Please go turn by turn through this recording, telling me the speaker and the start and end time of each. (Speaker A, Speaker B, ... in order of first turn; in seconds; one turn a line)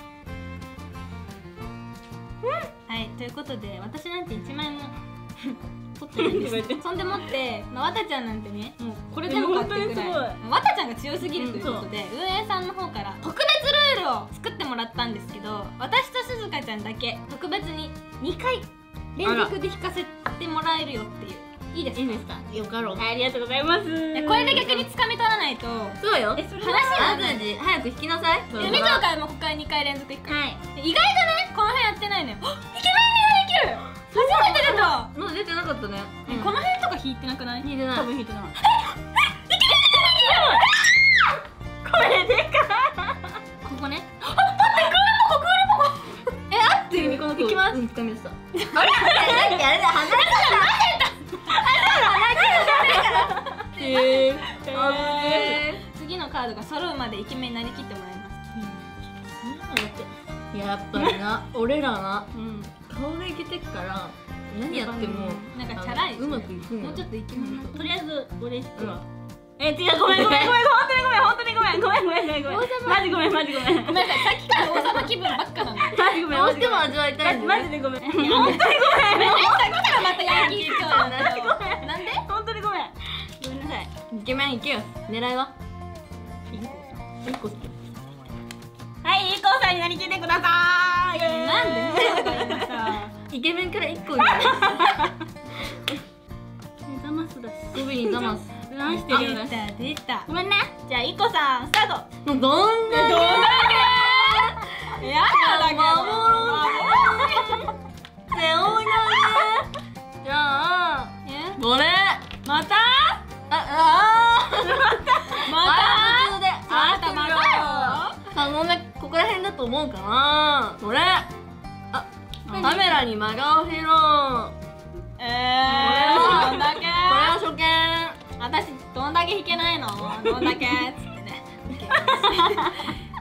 Speaker A: 2.9-4.9
Speaker A: 5.5-22.4
Speaker B: 6.2-6.8
Speaker B: 9.2-10.4
Speaker C: 11.4-11.8
Speaker B: 11.6-11.8
Speaker C: 19.2-19.5
Speaker C: 22.2-23.0
Speaker B: 22.9-24.8
Speaker A: 24.1-26.0
Speaker C: 26.0-29.1
Speaker B: 26.4-27.2
Speaker A: 26.6-27.5
Speaker A: 28.5-35.1
Speaker B: 30.3-30.6
Speaker C: 34.1-36.6
Speaker A: 36.2-37.7
Speaker C: 37.6-38.1
Speaker B: 37.9-38.8
Speaker A: 38.8-41.0
Speaker B: 40.0-40.7
Speaker B: 41.8-43.4
Speaker A: 43.6-47.8
Speaker C: 43.7-44.0
Speaker C: 46.9-50.9
Speaker A: 48.6-58.4
Speaker B: 51.5-53.6
Speaker C: 52.5-55.8
Speaker B: 54.5-55.6
Speaker C: 58.5-67.8
Speaker B: 62.3-62.7
Speaker B: 64.7-65.6
Speaker A: 65.5-67.7
Speaker B: 67.6-69.0
Speaker C: 68.8-69.0
Speaker B: 69.6-74.7
Speaker C: 70.1-70.6
Speaker C: 72.5-72.9
Speaker A: 72.6-73.1
Speaker A: 73.7-76.0
Speaker B: 75.7-83.9
Speaker C: 76.2-77.7
Speaker A: 78.2-82.2
Speaker C: 84.1-85.5
Speaker A: 86.5-87.0
Speaker C: 87.2-87.7
Speaker B: 89.0-92.8
Speaker A: 91.2-93.1
Speaker C: 93.3-94.8
Speaker B: 94.2-95.2
Speaker B: 96.9-99.7
Speaker C: 97.7-98.5
Speaker A: 98.9-100.3
Speaker B: 100.3-100.8
Speaker A: 100.8-102.1
Speaker C: 102.2-107.7
Speaker A: 102.9-107.7
Speaker C: 108.3-109.7
Speaker C: 110.2-112.3
Speaker A: 111.2-111.6
Speaker A: 112.4-113.2
Speaker C: 113.5-121.3
Speaker A: 115.3-118.2
Speaker C: 121.9-124.5
Speaker B: 122.5-123.0
Speaker A: 125.2-127.4
Speaker C: 125.7-128.2
Speaker B: 125.8-126.7
Speaker A: 128.4-133.0
Speaker B: 132.1-132.5